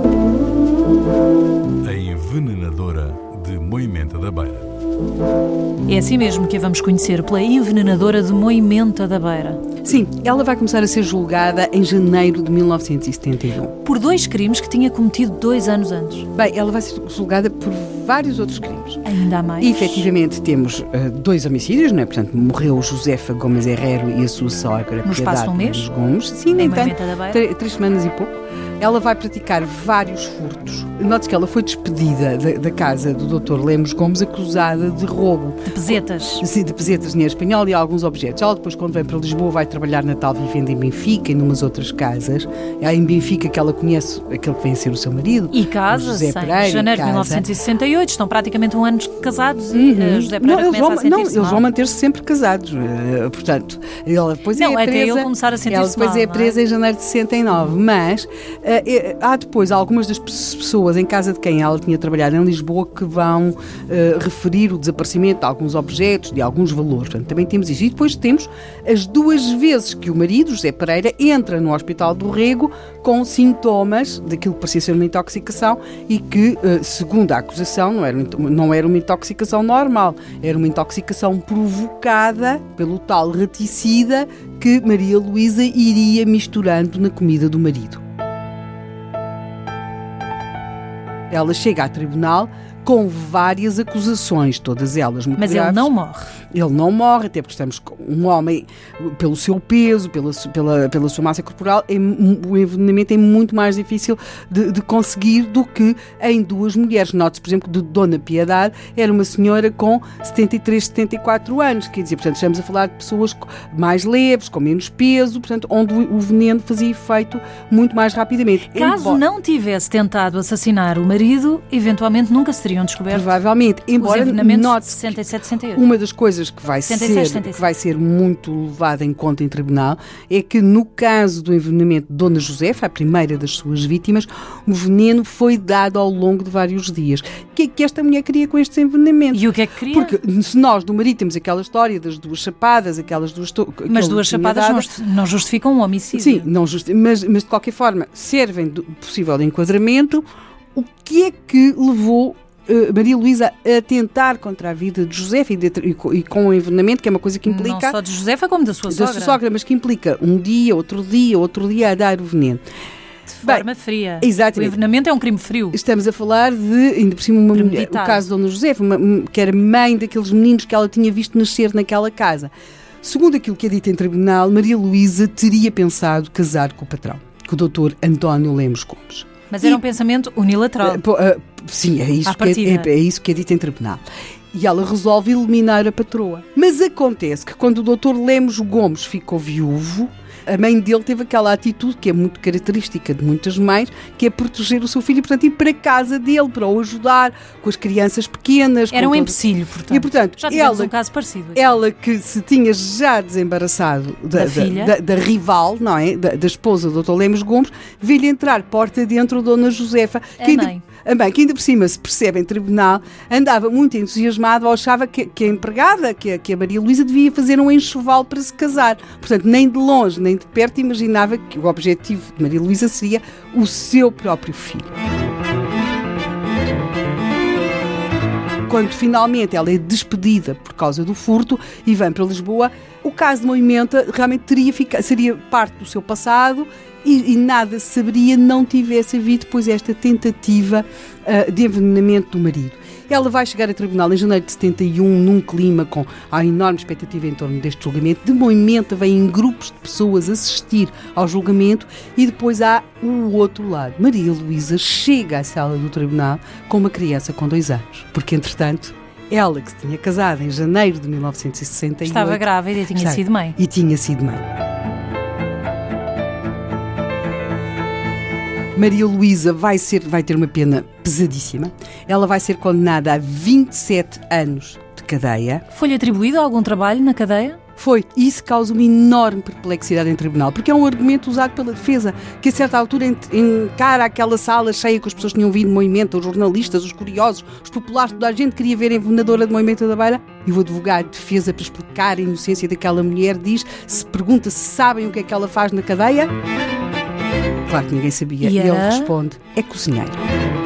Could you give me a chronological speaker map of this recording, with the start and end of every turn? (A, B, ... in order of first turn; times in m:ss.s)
0:01.8-0:04.7 A
0:05.9-0:09.6 B
0:09.8-0:13.7 C
0:13.8-0:16.3 B
0:16.4-0:19.1 C
0:19.0-0:20.1 B
0:19.6-0:47.5 C
0:25.0-0:25.9 B
0:26.5-0:27.4 B
0:35.7-0:36.4 B
0:45.5-0:51.7 B
0:49.7-1:28.0 C
0:54.5-0:56.6 B
1:31.3-1:35.9 C
1:35.4-1:36.3 B
1:36.5-1:59.2 C
1:58.7-2:03.3 B
2:03.1-2:24.9 C
2:04.0-2:05.8 B
2:06.9-2:07.7 B
2:19.3-2:20.2 B
2:23.9-2:26.5 B
2:26.1-2:30.2 C
2:30.8-2:38.0 C
2:37.4-2:39.4 B
2:38.9-2:42.6 C
2:43.3-2:45.8 B
2:44.2-2:44.8 C
2:45.7-2:52.5 C
2:47.5-2:48.2 B
2:53.0-2:59.8 C
2:59.5-3:01.0 B
3:00.8-3:04.0 C
3:02.3-3:02.9 B
3:04.5-3:19.4 C
3:18.9-3:21.7 B
3:19.9-3:20.9 C
3:21.5-3:44.9 C
3:24.3-3:25.0 B
3:30.4-3:30.8 B
3:48.7-4:24.4 C
4:22.1-4:23.6 B
4:28.8-4:35.6 C
4:35.7-4:37.6 B
4:37.8-4:56.3 C
4:57.7-5:00.2 C
4:58.4-4:59.1 B